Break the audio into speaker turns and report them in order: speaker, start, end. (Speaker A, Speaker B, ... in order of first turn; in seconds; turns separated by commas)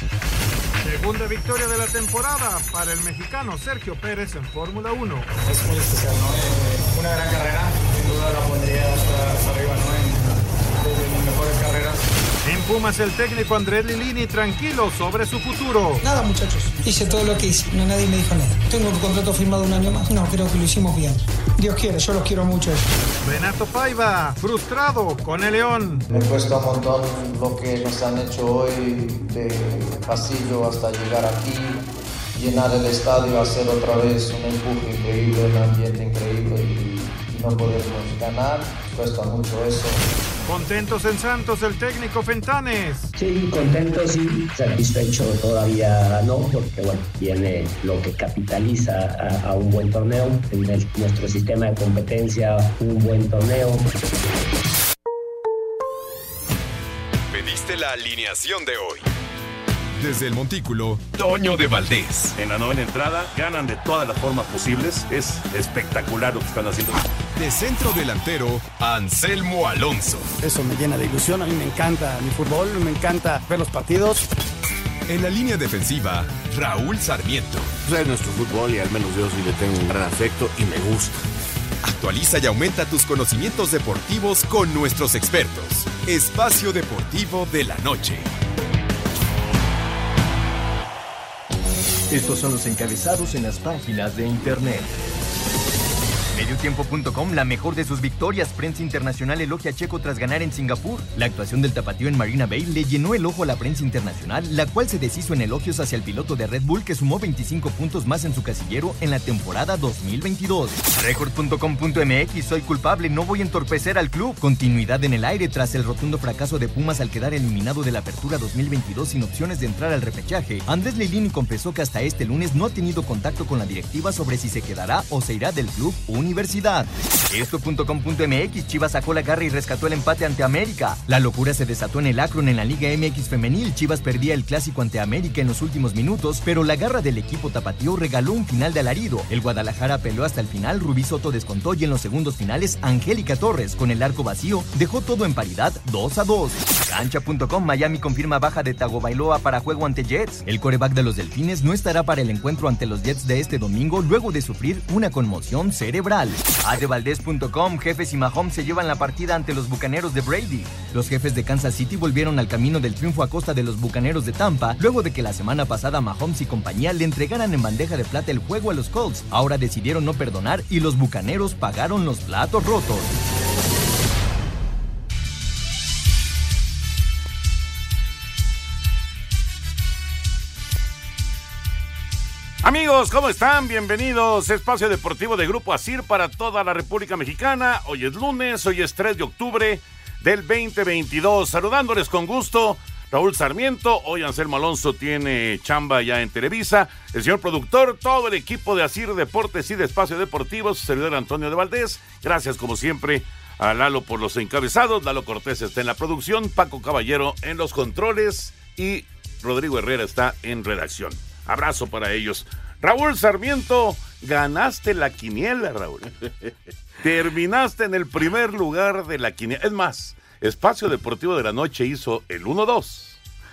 Speaker A: 0.8-5.3, Speaker B: 5.5-12.1, Speaker A: 12.4-16.0, Speaker C: 16.0-22.8, Speaker A: 23.2-26.1, Speaker D: 26.1-40.0, Speaker A: 40.5-43.1, Speaker E: 43.1-53.9, Speaker F: 57.3-59.0, Speaker F: 60.0-62.4, Speaker G: 62.4-67.0, Speaker F: 67.3-70.3, Speaker H: 70.4-74.2, Speaker F: 75.1-77.7, Speaker I: 77.8-81.2, Speaker F: 81.8-88.3, Speaker J: 92.1-94.9, Speaker K: 96.3-173.1, Speaker G: 182.6-216.1, Speaker G: 217.0-223.2